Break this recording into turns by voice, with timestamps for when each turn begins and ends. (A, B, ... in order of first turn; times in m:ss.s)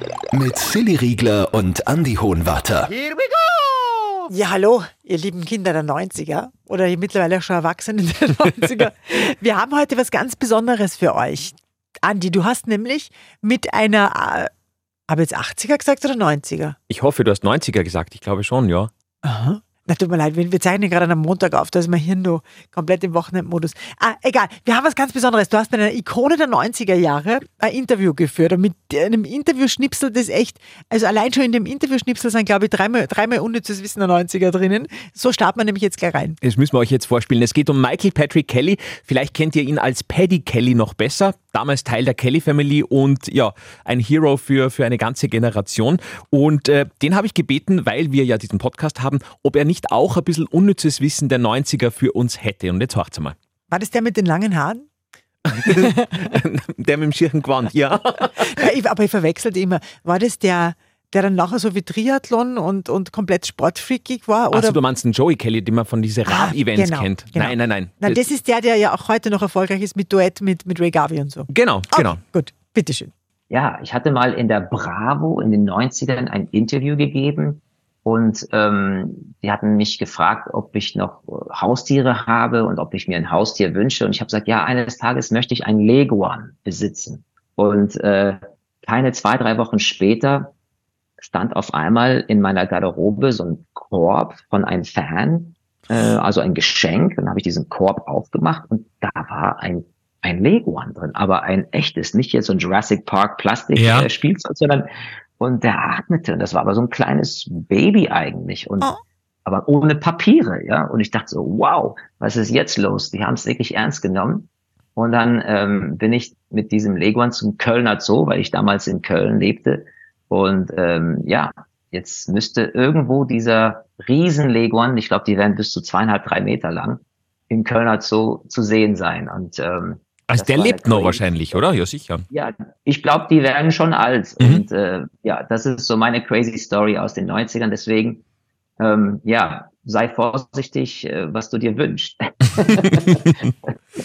0:00.3-0:02.9 A
0:04.3-0:14.5 B
0:15.1-0:16.8 B
0:16.9-0:18.9 C
0:19.2-0:36.4 B
0:36.4-0:53.3 C
0:53.7-0:54.8 B
0:55.5-0:58.7 C
0:58.4-1:04.8 B
1:04.5-1:08.2 C
1:06.2-1:13.1 B
1:11.5-1:12.2 C
1:13.5-1:30.5 D
1:31.2-1:44.8 D
1:43.8-1:44.1 C
1:45.4-1:48.9 D
1:49.4-2:11.6 D
2:10.3-2:12.2 C
2:12.3-2:18.2 D
2:18.8-2:23.6 D